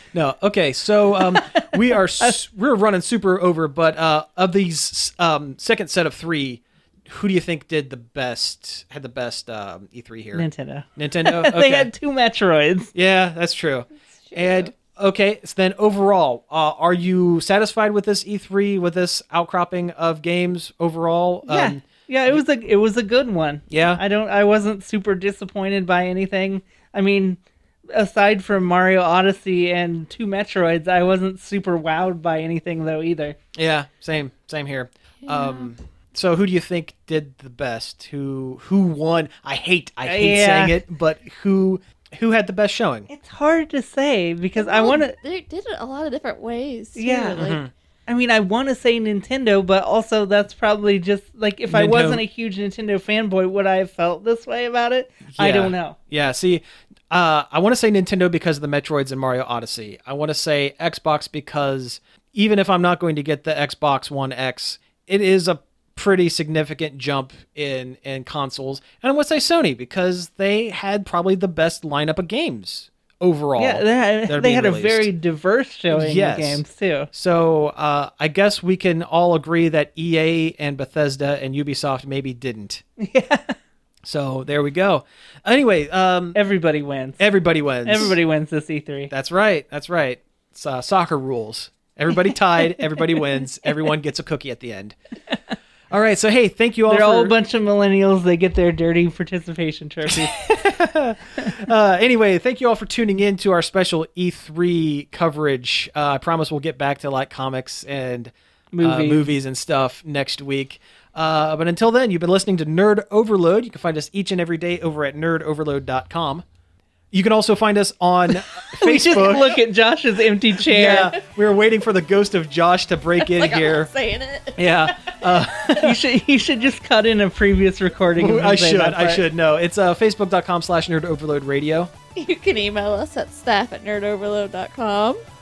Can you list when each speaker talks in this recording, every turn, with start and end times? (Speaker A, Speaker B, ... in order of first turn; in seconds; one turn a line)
Speaker A: 0.1-11.9
Speaker B: 1.3-2.4
Speaker B: 10.3-12.9
Speaker A: 12.9-22.4
Speaker B: 21.5-33.4
Speaker A: 23.7-24.0
Speaker A: 33.5-43.1
Speaker C: 35.2-35.7
Speaker B: 40.1-40.8
Speaker B: 43.1-45.2
Speaker C: 44.6-47.6
Speaker B: 47.0-47.4
Speaker A: 47.4-47.7
Speaker B: 48.1-56.0
Speaker A: 51.7-52.2
Speaker A: 55.3-75.1
Speaker B: 73.6-77.1
Speaker A: 75.9-76.6
Speaker A: 77.1-82.8
Speaker B: 83.0-83.6
Speaker A: 84.0-86.4
Speaker B: 86.3-87.2
Speaker A: 87.2-88.2
Speaker B: 87.8-89.1
Speaker A: 89.1-95.0
Speaker B: 92.8-93.1
Speaker A: 95.9-97.4
Speaker B: 96.9-100.4
Speaker A: 100.1-116.4
Speaker B: 108.7-109.3
Speaker A: 117.1-119.6
Speaker B: 118.4-121.2
Speaker A: 120.6-123.9
Speaker C: 123.2-124.9
Speaker A: 124.6-126.0
Speaker B: 125.6-129.2
Speaker A: 128.2-131.9
Speaker C: 132.2-135.2